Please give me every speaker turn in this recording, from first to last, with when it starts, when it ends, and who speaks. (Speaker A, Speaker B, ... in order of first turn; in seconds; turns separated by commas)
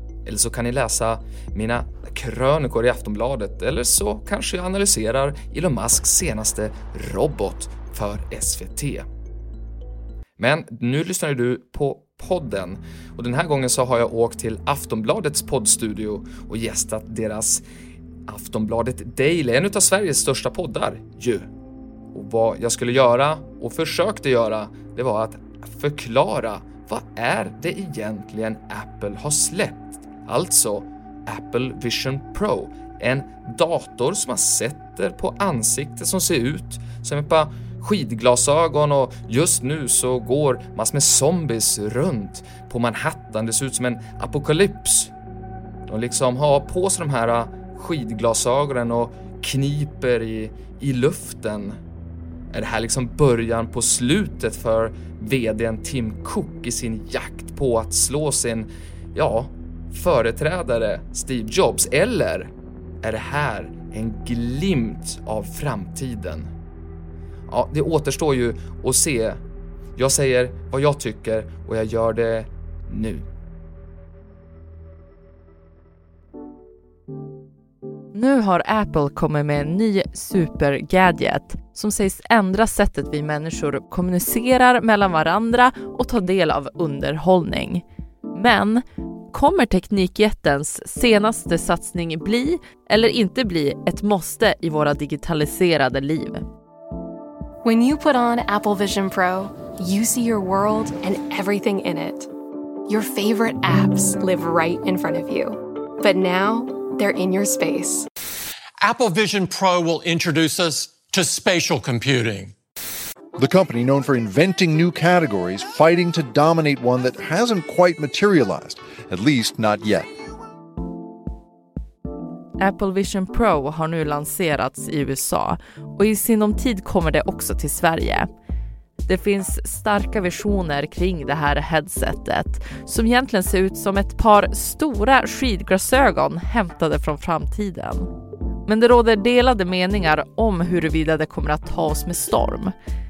Speaker A: 0.2-9.1, Speaker A: 10.4-17.6, Speaker A: 18.3-21.5, Speaker A: 22.1-45.1, Speaker A: 45.9-51.8, Speaker A: 52.5-62.5, Speaker A: 63.0-66.5, Speaker A: 67.5-69.4, Speaker A: 70.0-73.2, Speaker B: 78.1-96.5, Speaker C: 97.6-102.3, Speaker C: 102.9-108.1, Speaker D: 108.8-112.6, Speaker E: 113.4-120.1, Speaker B: 122.6-128.3, Speaker B: 129.1-138.1, Speaker B: 138.7-142.7